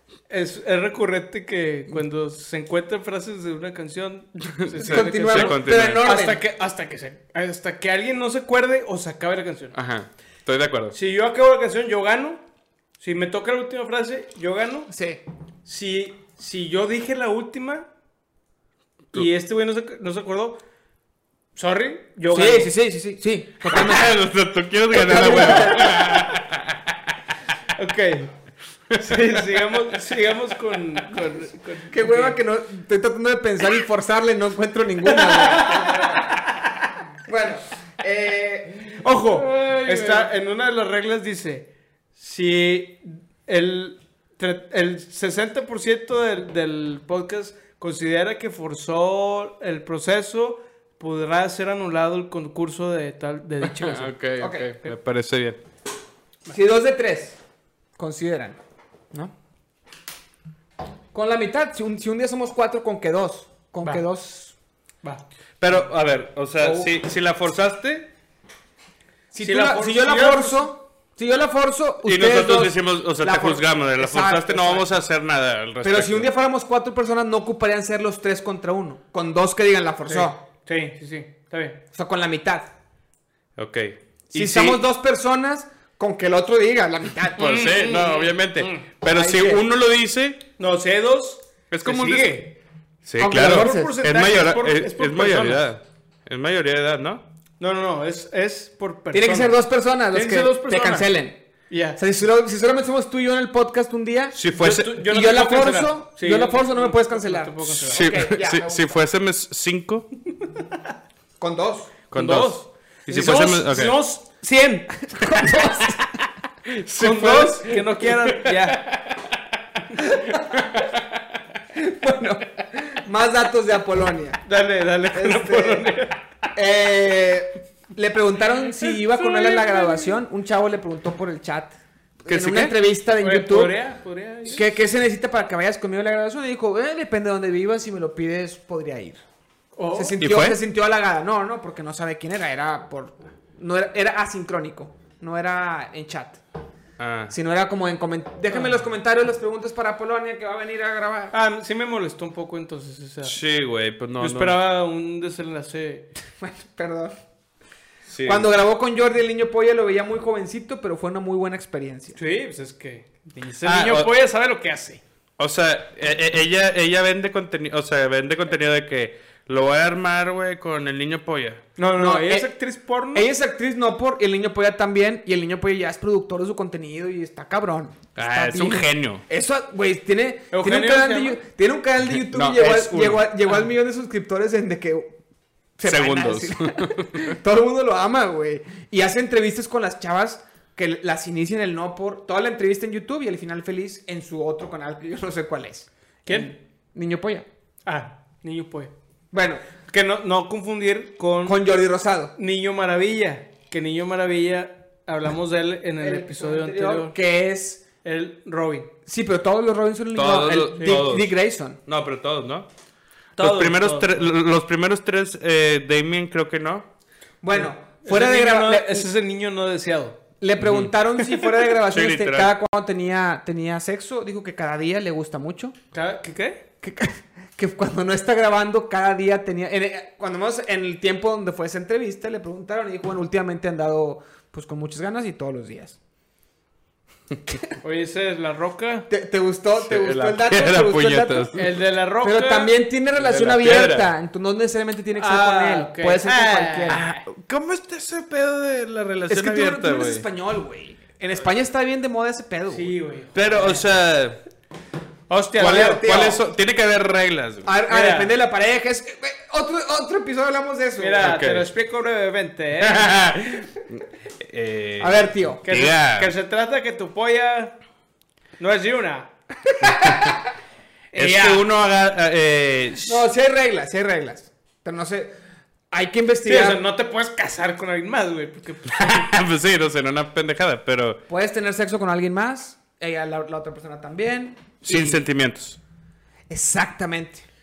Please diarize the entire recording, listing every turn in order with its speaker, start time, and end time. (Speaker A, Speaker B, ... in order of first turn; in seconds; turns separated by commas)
Speaker A: 0.3-9.8, Speaker B: 4.7-6.1, Speaker C: 4.8-6.4, Speaker B: 9.7-11.0, Speaker A: 10.9-12.4, Speaker A: 13.0-14.9, Speaker C: 14.9-15.2, Speaker A: 15.7-17.9, Speaker A: 19.1-20.6, Speaker A: 21.6-22.7, Speaker C: 22.3-24.1, Speaker B: 23.6-27.0, Speaker C: 24.9-26.0, Speaker A: 27.8-28.3, Speaker B: 28.9-29.4, Speaker A: 29.0-32.4, Speaker C: 31.9-36.4, Speaker A: 35.0-36.6, Speaker C: 37.2-39.0, Speaker A: 39.0-54.1, Speaker B: 39.4-40.3, Speaker B: 53.6-55.6, Speaker C: 54.4-54.7, Speaker C: 56.5-57.4, Speaker C: 58.0-58.6, Speaker C: 61.1-64.5, Speaker B: 65.6-68.1, Speaker C: 66.6-66.9, Speaker C: 69.3-74.9, Speaker A: 69.4-70.7, Speaker B: 72.0-76.3, Speaker C: 75.8-80.4, Speaker A: 80.1-81.8, Speaker C: 81.9-82.7, Speaker B: 83.6-84.8, Speaker C: 84.3-87.5, Speaker B: 87.4-90.4, Speaker A: 87.4-88.8, Speaker C: 89.0-89.6, Speaker A: 90.6-92.6, Speaker B: 91.7-92.4, Speaker B: 93.0-97.2, Speaker C: 93.2-93.9, Speaker A: 93.4-95.7, Speaker A: 97.6-99.6, Speaker C: 99.1-101.4, Speaker A: 100.1-101.2, Speaker A: 101.7-102.0, Speaker C: 102.0-104.4, Speaker B: 104.3-105.0, Speaker A: 104.5-108.1, Speaker C: 105.1-109.0, Speaker B: 107.8-110.1, Speaker C: 111.4-111.9, Speaker B: 112.1-114.0, Speaker A: 112.1-114.9, Speaker C: 114.9-116.2, Speaker B: 116.7-119.3, Speaker A: 117.0-118.8, Speaker B: 120.0-121.2, Speaker C: 121.8-124.4, Speaker A: 124.5-126.2, Speaker C: 125.1-125.9, Speaker C: 126.5-133.8, Speaker A: 128.9-130.1, Speaker B: 132.3-132.8, Speaker A: 133.2-134.7, Speaker C: 134.5-139.2, Speaker A: 139.8-140.2, Speaker C: 139.9-146.4, Speaker B: 140.2-140.6, Speaker B: 147.0-147.3, Speaker C: 147.3-151.3, Speaker A: 148.5-148.8, Speaker A: 151.3-153.4, Speaker B: 153.2-154.6, Speaker A: 154.2-156.1, Speaker C: 156.4-157.1, Speaker B: 158.1-158.5, Speaker C: 158.2-162.2, Speaker A: 162.2-165.0, Speaker B: 163.6-164.1, Speaker B: 165.4-171.6, Speaker A: 171.8-173.3, Speaker C: 172.0-172.5, Speaker C: 173.1-185.1, Speaker B: 178.2-179.2, Speaker A: 180.5-181.4, Speaker B: 182.1-183.3, Speaker C: 185.8-197.5, Speaker B: 185.9-187.4, Speaker A: 196.3-196.5, Speaker A: 197.9-198.9, Speaker C: 199.3-199.6, Speaker A: 199.9-201.7, Speaker C: 201.4-202.3, Speaker A: 202.3-207.2, Speaker C: 206.0-207.8, Speaker A: 208.0-208.9, Speaker C: 209.1-211.8, Speaker B: 210.1-212.7, Speaker A: 210.8-211.1, Speaker A: 213.4-214.3, Speaker B: 213.4-216.9, Speaker C: 217.4-219.1, Speaker A: 217.5-220.2, Speaker C: 220.4-225.8, Speaker B: 220.6-220.9, Speaker A: 221.2-221.6, Speaker B: 221.9-222.5, Speaker A: 225.9-226.6, Speaker C: 226.8-236.0, Speaker A: 237.8-239.1, Speaker C: 239.1-241.5, Speaker B: 239.8-241.7, Speaker A: 241.5-242.7, Speaker C: 242.2-247.0, Speaker B: 243.2-244.1, Speaker A: 245.1-247.2, Speaker B: 246.9-250.2, Speaker C: 249.3-252.9, Speaker A: 252.7-253.9, Speaker B: 253.3-254.4, Speaker A: 255.3-256.1, Speaker B: 255.6-257.7, Speaker C: 255.6-256.4, Speaker C: 257.6-261.3, Speaker A: 257.9-258.3, Speaker A: 261.0-263.2, Speaker B: 261.2-261.7, Speaker B: 262.8-266.3, Speaker C: 265.0-265.6, Speaker A: 265.6-267.8, Speaker A: 268.6-269.3, Speaker C: 269.7-270.4, Speaker B: 269.9-270.3, Speaker A: 271.1-271.6, Speaker B: 271.1-273.3, Speaker C: 273.1-275.3, Speaker C: 275.9-276.8, Speaker A: 276.4-279.3, Speaker B: 278.9-281.2, Speaker C: 281.3-285.2, Speaker B: 284.9-285.8, Speaker C: 286.5-287.5